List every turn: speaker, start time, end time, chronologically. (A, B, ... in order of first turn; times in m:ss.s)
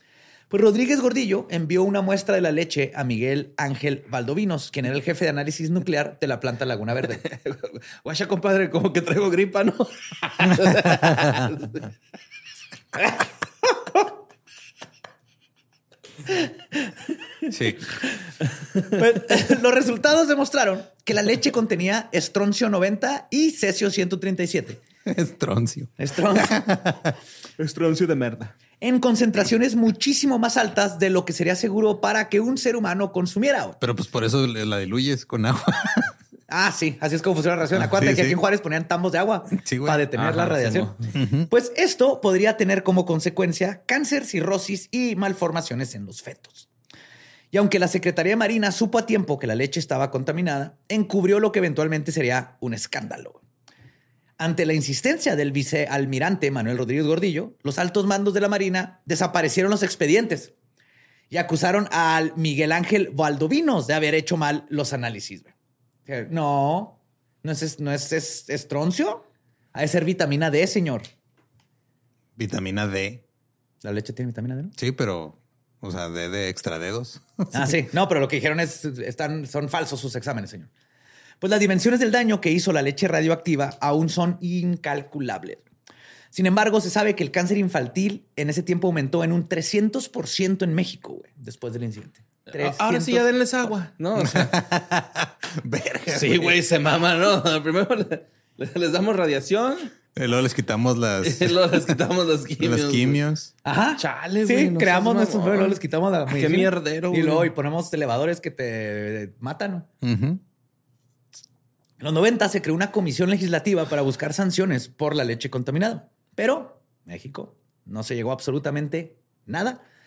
0:00.5-0:07.2 A
0:07.1-0:11.9 B
0:10.8-0:11.5 C
0:17.5-0:17.9 C
0:18.9-0:24.8 A
0:25.1-0:27.1 C
0:26.0-0:26.6 A
0:27.6-0:28.5 B
0:28.8-0:33.8 A
0:33.8-0:36.1 C
0:36.5-0:46.7 A
0:37.7-0:38.4 C
0:39.5-0:40.1 C
0:40.1-0:41.0 B
0:41.1-0:41.5 C
0:47.5-0:53.4 A
0:54.4-1:00.5 A
1:01.3-1:05.5 A
1:06.1-1:11.1 A
1:12.4-1:13.2 C
1:13.8-1:14.7 A
1:14.8-1:17.8 C
1:17.5-1:20.7 A
1:21.4-1:25.6 A
1:26.3-1:33.3 A
1:32.5-1:34.6 B
1:34.2-1:36.6 C
1:36.1-1:39.9 B
1:40.2-1:41.6 C
1:41.2-1:43.2 B
1:42.6-1:43.5 C
1:43.6-1:49.9 A
1:44.0-1:47.5 B
1:50.0-1:50.4 C
1:52.0-1:59.8 A